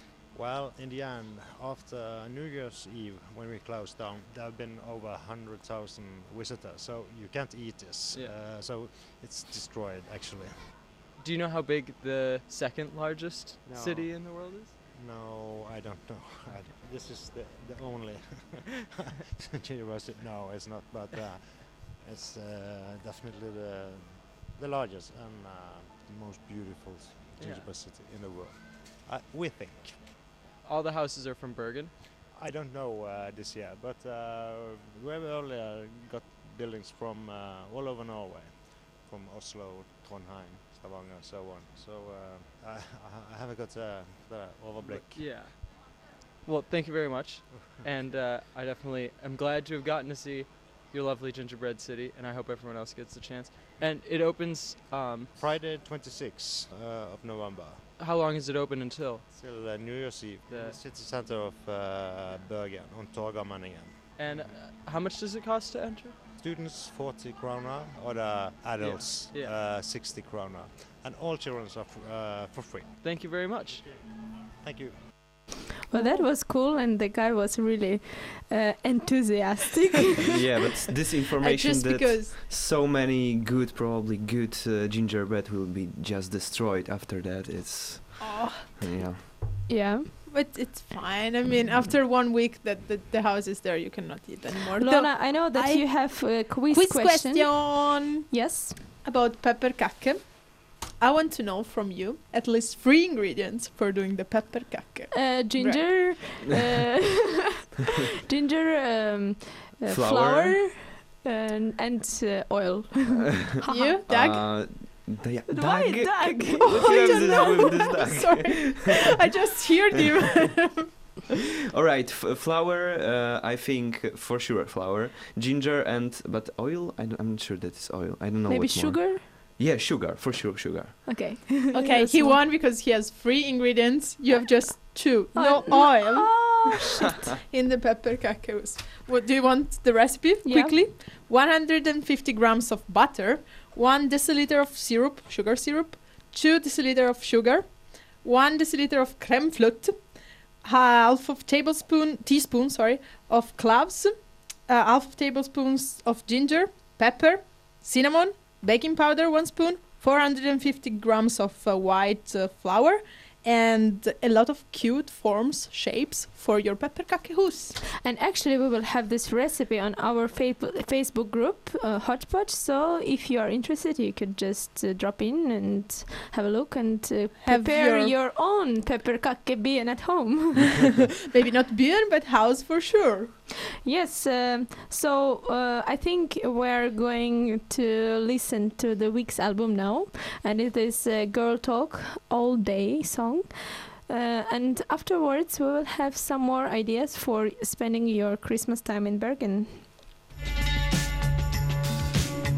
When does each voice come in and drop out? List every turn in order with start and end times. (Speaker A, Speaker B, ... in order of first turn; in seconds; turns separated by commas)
Speaker A: 0.3-10.6, Speaker B: 11.2-14.8, Speaker A: 13.6-30.1, Speaker B: 27.4-27.7, Speaker B: 30.6-31.9, Speaker A: 32.3-45.5, Speaker B: 44.8-45.9, Speaker B: 46.4-55.4, Speaker A: 47.5-47.9, Speaker A: 55.4-57.8, Speaker B: 58.0-59.3, Speaker A: 59.3-64.6, Speaker B: 60.5-60.8, Speaker B: 64.2-66.2, Speaker A: 66.4-75.1, Speaker B: 68.8-69.6, Speaker B: 73.0-73.9, Speaker C: 75.9-80.3, Speaker D: 75.9-76.3, Speaker E: 80.3-89.4, Speaker D: 81.4-82.3, Speaker D: 88.2-88.8, Speaker C: 89.7-90.1, Speaker D: 90.3-98.4, Speaker C: 94.8-98.8, Speaker D: 99.0-106.1, Speaker C: 105.1-107.3, Speaker C: 108.3-114.0, Speaker E: 109.9-110.6, Speaker D: 113.7-114.5, Speaker E: 114.1-118.9, Speaker C: 115.5-117.9, Speaker D: 116.6-121.0, Speaker E: 121.7-131.1, Speaker C: 128.5-129.2, Speaker C: 131.1-132.4, Speaker D: 131.7-167.8, Speaker C: 135.3-137.2, Speaker C: 140.4-140.8, Speaker C: 168.0-180.9, Speaker D: 177.4-178.1, Speaker D: 181.3-183.3, Speaker C: 183.8-199.8